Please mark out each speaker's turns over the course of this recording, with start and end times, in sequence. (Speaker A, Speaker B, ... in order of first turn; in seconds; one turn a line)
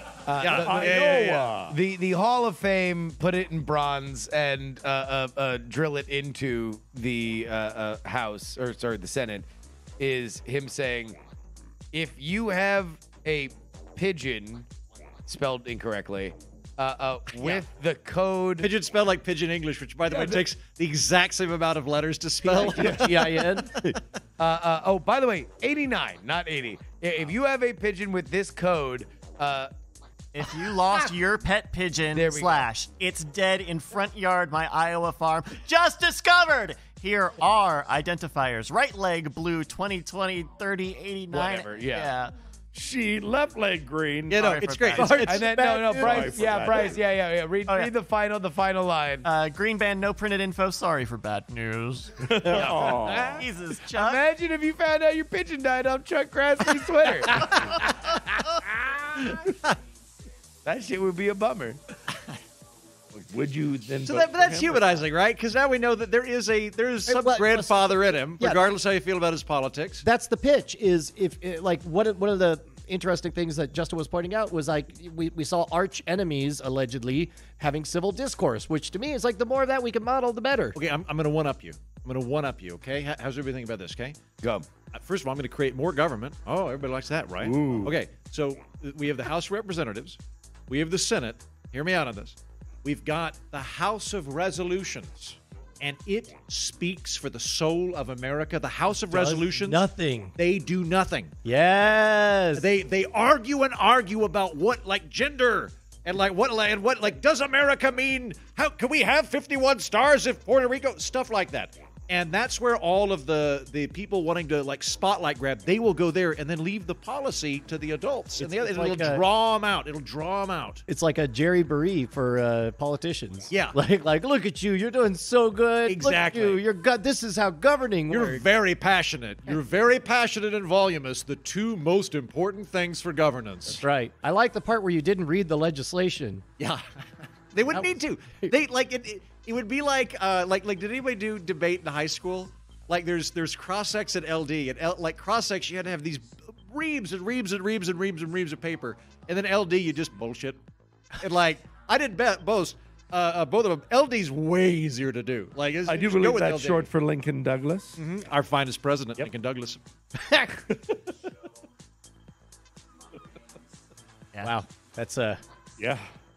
Speaker A: 0.2-9.5
Speaker B: 0.4-1.5
Speaker C: 0.4-1.8
Speaker A: 10.0-11.2
Speaker A: 11.9-14.7
Speaker A: 15.2-18.7
Speaker B: 18.6-24.0
Speaker C: 20.1-20.4
Speaker D: 22.4-24.0
Speaker C: 22.7-23.2
Speaker A: 24.4-29.7
Speaker E: 30.3-42.3
Speaker A: 32.1-32.6
Speaker A: 41.3-42.1
Speaker C: 42.7-44.6
Speaker B: 44.3-45.2
Speaker E: 44.3-45.5
Speaker D: 44.9-46.6
Speaker A: 45.2-49.2
Speaker C: 45.9-47.0
Speaker E: 47.7-47.9
Speaker E: 49.2-54.2
Speaker C: 52.2-53.4
Speaker A: 53.9-59.5
Speaker A: 60.6-61.8
Speaker C: 63.1-65.0
Speaker B: 64.0-70.0
Speaker D: 67.1-68.6
Speaker D: 70.0-80.8
Speaker B: 80.7-84.2
Speaker A: 84.4-84.7
Speaker B: 84.9-99.8
Speaker C: 87.4-87.9
Speaker D: 99.1-100.3
Speaker B: 100.4-101.3
Speaker D: 101.4-102.7
Speaker B: 102.5-120.8
Speaker D: 118.4-119.2
Speaker D: 120.9-128.4
Speaker B: 123.5-123.7
Speaker B: 125.8-126.6
Speaker B: 128.1-133.8
Speaker D: 133.8-136.4
Speaker B: 137.5-150.6
Speaker D: 137.7-138.5
Speaker B: 151.2-156.9
Speaker C: 155.8-158.0
Speaker B: 158.0-159.8
Speaker D: 160.1-160.6
Speaker C: 160.7-161.0
Speaker D: 164.4-165.4
Speaker C: 165.8-166.1